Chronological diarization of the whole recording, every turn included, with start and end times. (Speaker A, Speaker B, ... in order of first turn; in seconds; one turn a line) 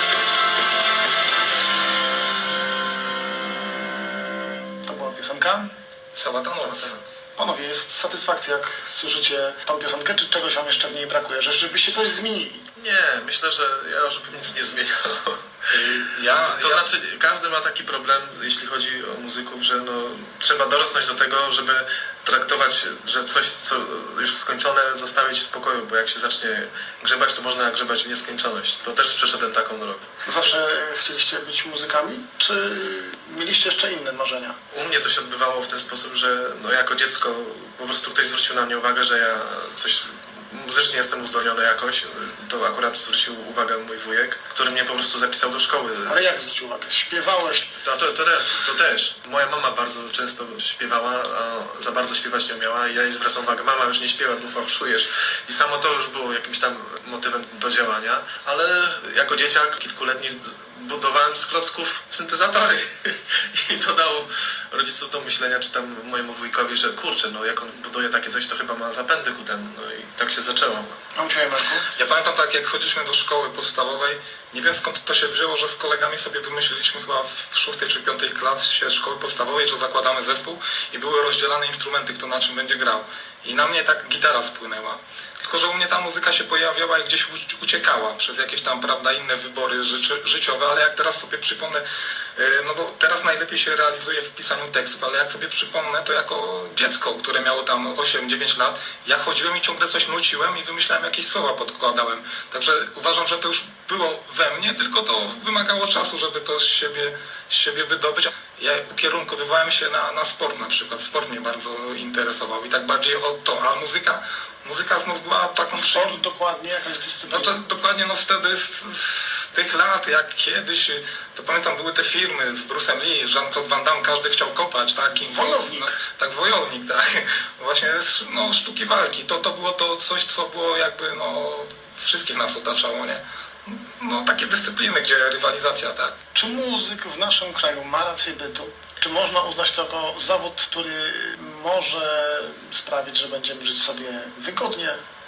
Speaker A: 4.9-5.7
Speaker B: 6.2-6.9
Speaker C: 6.6-7.1
Speaker A: 7.4-12.7
Speaker C: 12.8-30.1
Speaker B: 15.7-16.9
Speaker A: 30.2-34.6
Speaker C: 34.7-46.2
Speaker A: 46.1-47.8
Speaker C: 47.8-71.0
Speaker A: 71.2-71.9
Speaker B: 72.0-91.8
Speaker B: 92.4-116.2
Speaker A: 115.7-117.6
Speaker B: 117.3-136.2
Speaker A: 125.2-125.9
Speaker A: 136.3-145.0